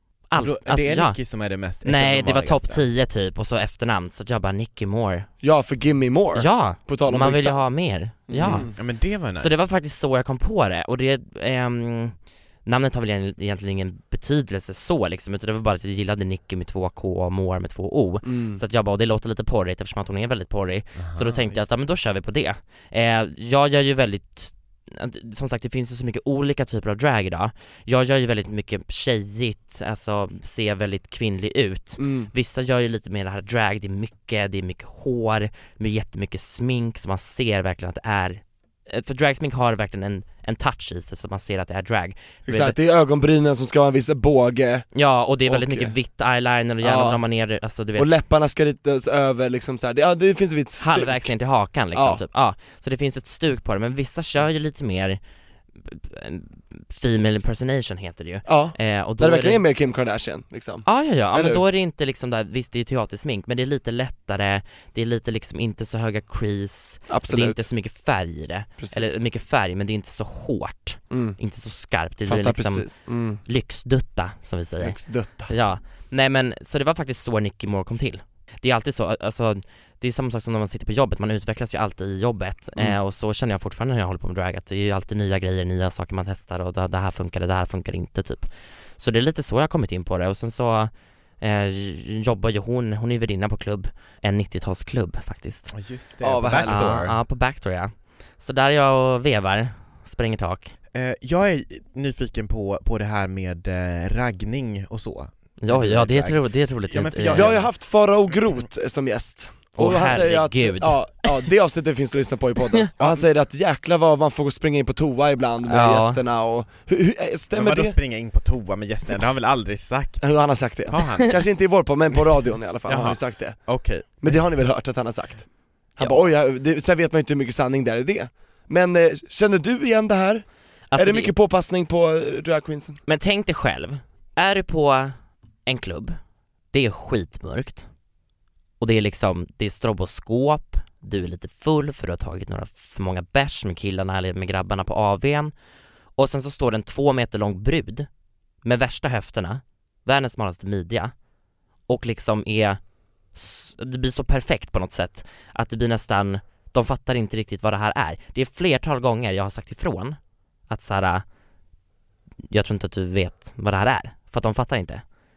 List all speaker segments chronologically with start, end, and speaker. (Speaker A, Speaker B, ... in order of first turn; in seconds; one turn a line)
Speaker A: 0.3-1.2
Speaker B: 0.4-2.9
Speaker A: 1.8-5.3
Speaker C: 5.4-7.6
Speaker A: 6.3-8.7
Speaker C: 8.3-8.7
Speaker B: 8.4-9.7
Speaker A: 9.3-42.8
Speaker C: 18.2-18.6
Speaker B: 21.0-21.8
Speaker C: 32.0-32.3
Speaker C: 42.5-44.9
Speaker A: 44.9-48.1
Speaker C: 45.5-45.9
Speaker C: 46.8-47.2
Speaker C: 48.0-51.3
Speaker A: 50.8-55.2
Speaker C: 51.9-52.2
Speaker A: 55.8-59.6
Speaker C: 58.5-61.6
Speaker A: 60.9-95.7
Speaker C: 67.1-67.7
Speaker C: 68.8-69.1
Speaker C: 71.1-71.4
Speaker C: 72.3-73.4
Speaker C: 74.8-75.5
Speaker B: 95.7-97.2
Speaker C: 96.2-97.0
Speaker A: 96.6-100.7
Speaker B: 100.9-107.7
Speaker A: 105.6-107.6
Speaker C: 107.3-118.0
Speaker A: 109.8-111.3
Speaker A: 115.7-116.2
Speaker B: 117.5-121.4
Speaker C: 120.2-133.0
Speaker B: 122.9-124.5
Speaker A: 126.0-126.3
Speaker A: 130.9-131.3
Speaker A: 133.1-136.2
Speaker A: 136.7-137.9
Speaker A: 138.8-145.5
Speaker A: 146.2-148.1
Speaker A: 148.6-151.1
Speaker A: 151.9-152.8
Speaker A: 153.3-161.2
Speaker A: 162.5-165.0